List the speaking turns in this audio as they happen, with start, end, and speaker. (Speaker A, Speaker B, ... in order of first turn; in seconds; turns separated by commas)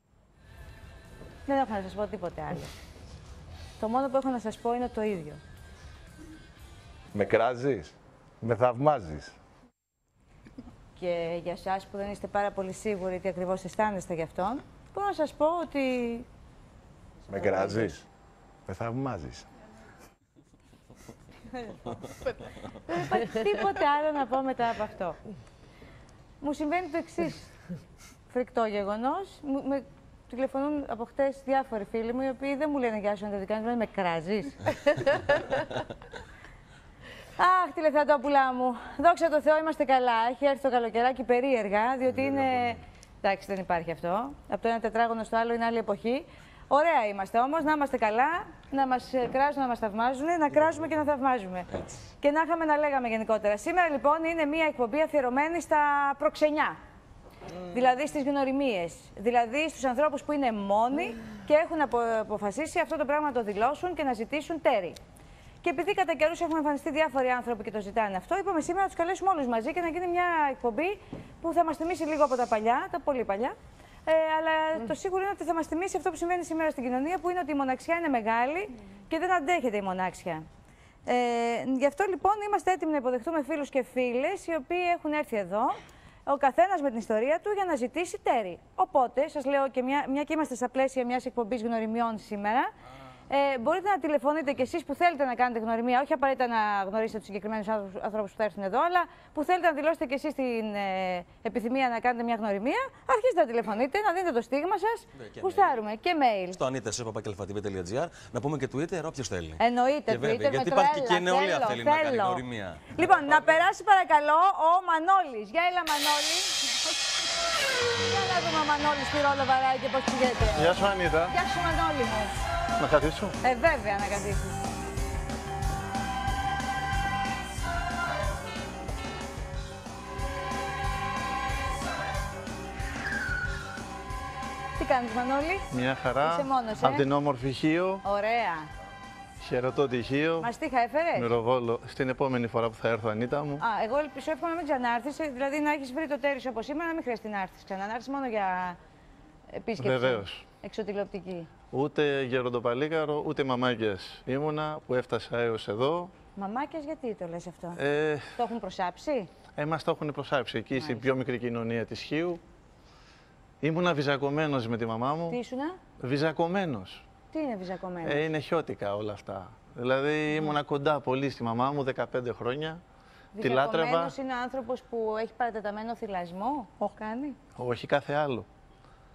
Speaker A: 1.5-2.7, Speaker A: 3.8-5.4, Speaker B: 7.1-9.3, Speaker A: 11.0-16.2, Speaker B: 17.3-18.1, Speaker A: 17.4-17.9, Speaker B: 18.7-19.4, Speaker A: 21.5-21.8, Speaker A: 22.9-25.2, Speaker A: 26.4-27.5, Speaker A: 28.3-35.7, Speaker A: 37.4-51.7, Speaker A: 52.2-56.8, Speaker A: 57.7-65.0, Speaker A: 65.6-80.5, Speaker A: 81.0-92.7, Speaker A: 93.3-106.6, Speaker C: 105.2-105.8, Speaker C: 106.5-113.0, Speaker A: 109.6-112.4, Speaker A: 112.9-116.8, Speaker A: 118.1-122.3, Speaker D: 120.5-121.3, Speaker D: 122.8-123.3, Speaker A: 123.4-124.7, Speaker A: 134.8-135.7, Speaker D: 135.7-138.0, Speaker A: 136.2-137.0, Speaker A: 138.0-138.7, Speaker D: 139.4-140.5, Speaker A: 140.4-141.3, Speaker D: 141.2-143.6, Speaker A: 143.6-148.8, Speaker A: 149.5-151.5, Speaker D: 149.8-150.4, Speaker D: 151.7-156.1, Speaker A: 156.3-157.8, Speaker D: 157.7-158.3, Speaker A: 158.3-159.3, Speaker D: 159.5-162.4, Speaker A: 160.8-161.0, Speaker D: 163.6-165.4, Speaker A: 165.3-165.8, Speaker D: 166.0-167.0, Speaker A: 167.3-168.3, Speaker D: 168.0-172.8, Speaker A: 173.3-177.4, Speaker D: 173.4-174.1, Speaker D: 177.5-178.5